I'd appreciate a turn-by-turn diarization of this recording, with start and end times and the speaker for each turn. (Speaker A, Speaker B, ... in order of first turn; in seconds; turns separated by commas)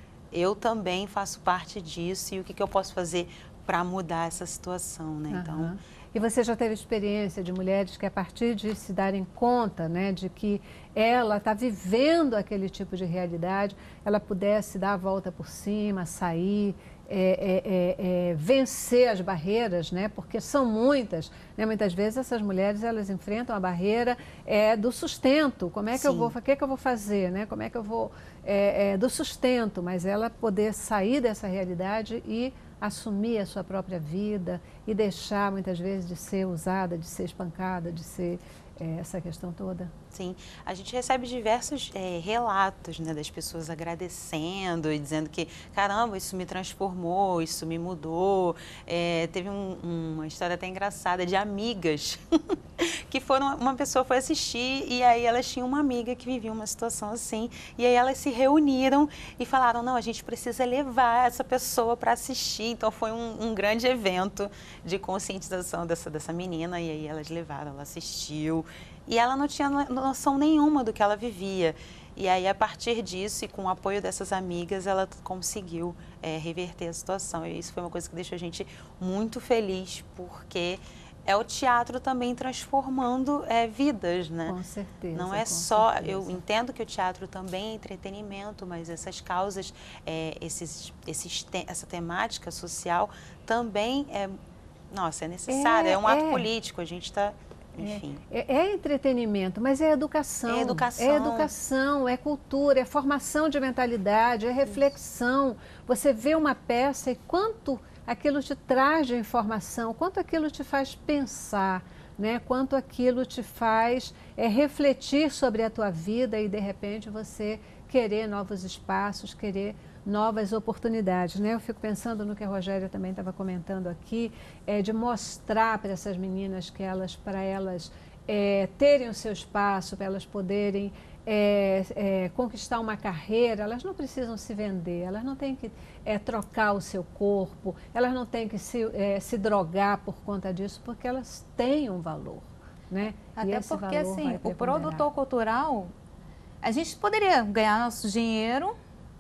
Speaker A: 0.3-5.8, Speaker B: 5.3-39.9, Speaker A: 25.9-26.3, Speaker A: 40.1-84.6, Speaker B: 84.4-86.4, Speaker A: 85.1-94.4, Speaker A: 94.9-98.2, Speaker B: 95.5-96.5, Speaker B: 97.8-145.1, Speaker A: 100.5-101.5, Speaker C: 143.3-145.9, Speaker C: 146.6-148.7